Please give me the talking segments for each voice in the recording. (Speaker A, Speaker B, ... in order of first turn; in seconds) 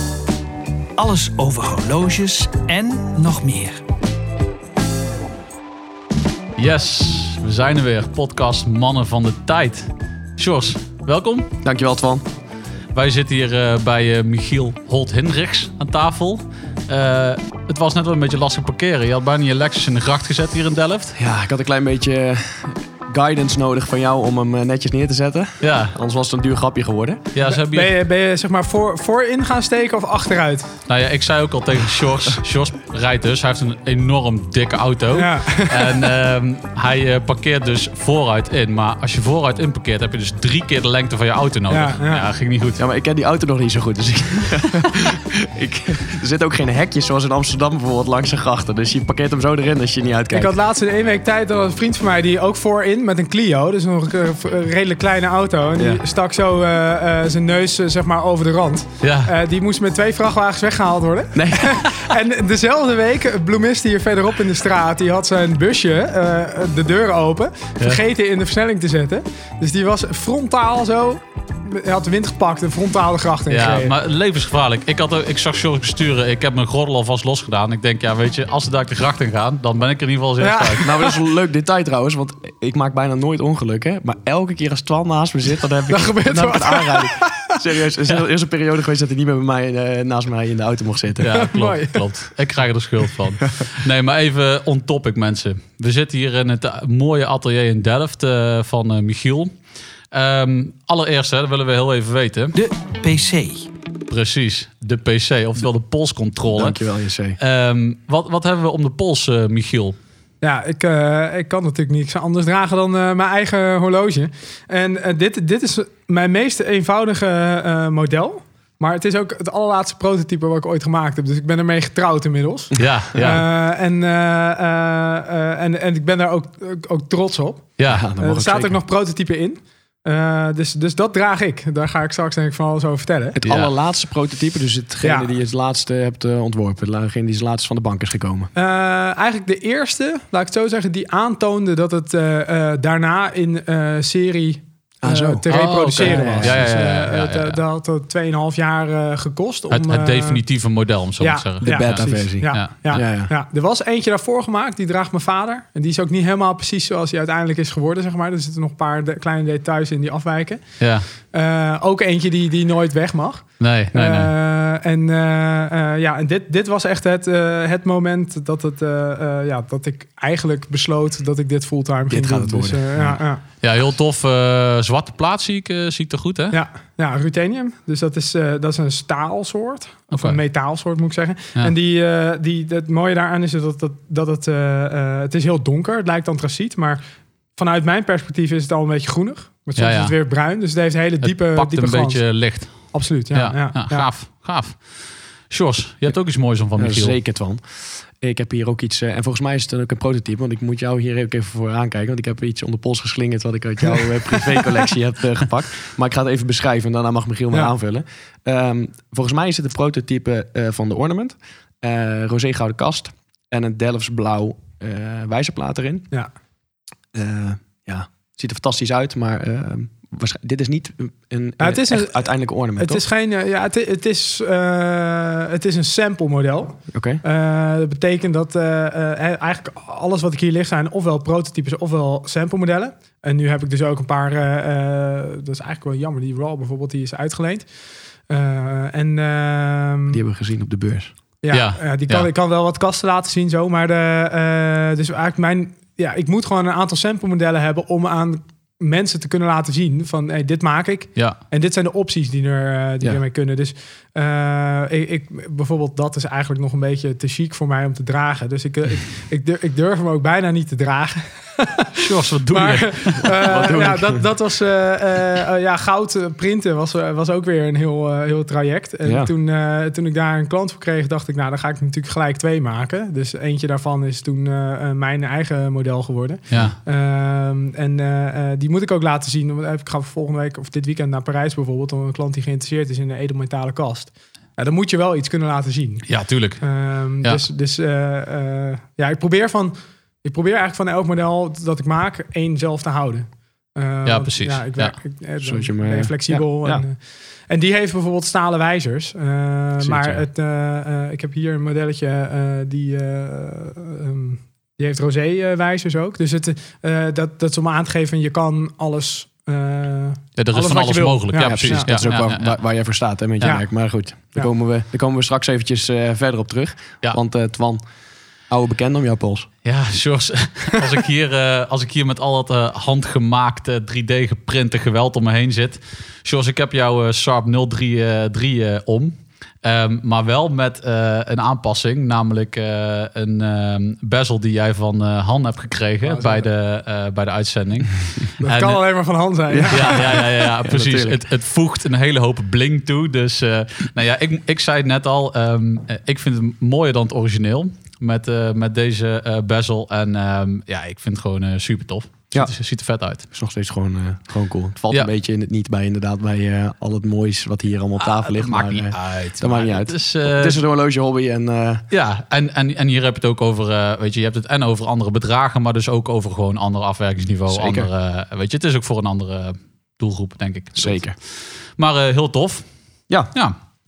Speaker A: 0.9-3.8, 102.5-103.7
Speaker B: 6.6-11.5, 12.9-21.2, 25.6-25.9, 27.3-27.9, 30.9-42.8, 59.0-59.3, 73.5-80.9, 91.2-99.6, 100.1-102.5, 104.1-106.8, 107.4-110.0, 122.8-123.4, 127.8-128.1, 133.4-133.7, 145.5-147.6, 149.7-152.7, 160.8-161.1, 163.6-164.3, 173.6-176.6, 180.1-180.4, 189.8-190.2, 191.2-197.2, 241.5-242.3, 262.0-263.5, 276.5-276.8, 286.1-287.4, 294.1-295.0, 310.4-312.9, 319.6-339.1, 339.7-353.2, 358.0-360.6, 361.9-373.6
Speaker C: 11.6-12.3, 21.2-27.2, 42.8-50.5, 55.8-56.0, 61.3-62.1, 80.8-91.4, 106.5-107.4, 127.9-128.8, 133.3-138.5, 145.0-146.7, 151.6-153.3, 172.1-173.2, 196.8-216.1, 217.1-223.0, 226.9-227.2, 240.1-241.1, 263.3-264.2, 269.0-269.3, 295.4-296.9, 299.8-300.2, 311.4-317.9, 318.4-319.5, 339.5-341.2, 353.3-361.8, 367.5-367.9, 370.7-371.1
Speaker D: 27.5-30.7, 35.1-36.0, 41.7-42.3, 50.3-73.9, 80.4-81.2, 85.9-87.6, 91.3-92.1, 110.4-133.4, 135.0-135.3, 138.5-150.4, 151.2-173.4, 176.5-187.0, 187.5-194.1, 221.6-240.2, 241.4-312.0, 313.4-313.7, 336.0-336.4, 338.4-340.0